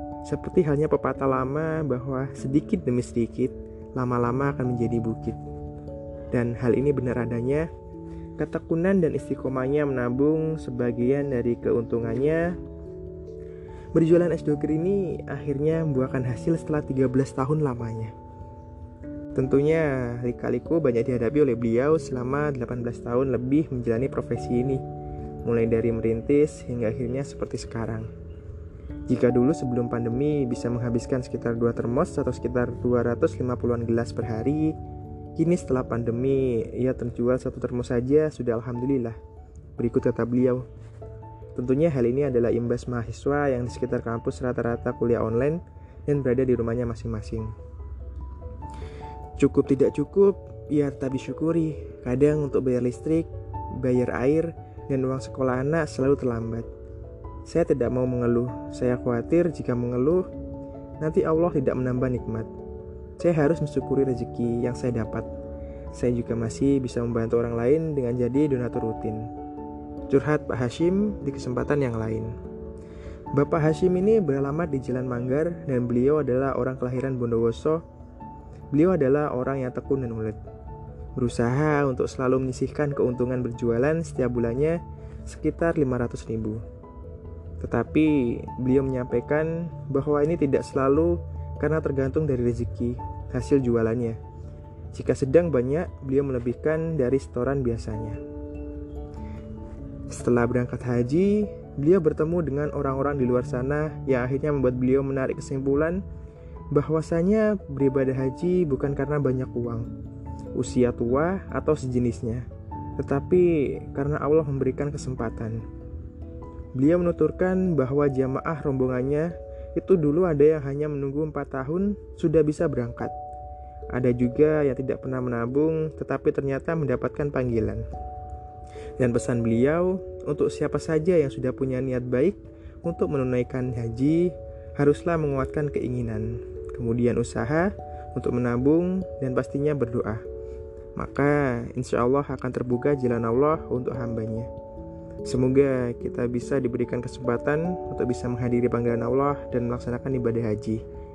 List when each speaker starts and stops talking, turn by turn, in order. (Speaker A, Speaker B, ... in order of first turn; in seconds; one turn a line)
Speaker A: 0.2-5.4
Speaker A: 6.3-7.7
Speaker A: 8.4-12.6
Speaker A: 13.9-18.1
Speaker A: 19.3-24.8
Speaker A: 25.4-28.1
Speaker A: 29.1-34.7
Speaker A: 35.4-39.2
Speaker A: 39.8-40.6
Speaker A: 41.5-47.5
Speaker A: 49.4-53.3
Speaker A: 53.8-56.6
Speaker A: 57.5-60.2
Speaker A: 61.0-62.5
Speaker A: 63.2-65.3
Speaker A: 65.9-69.3
Speaker A: 70.1-72.3
Speaker A: 73.3-77.8
Speaker A: 78.7-80.4
Speaker A: 81.2-86.6
Speaker A: 87.6-94.2
Speaker A: 94.9-98.2
Speaker A: 100.1-106.0
Speaker A: 106.7-109.9
Speaker A: 110.6-112.5
Speaker A: 113.0-115.6
Speaker A: 116.7-123.1
Speaker A: 123.9-127.8
Speaker A: 129.0-140.2
Speaker A: 140.9-144.5
Speaker A: 145.3-150.8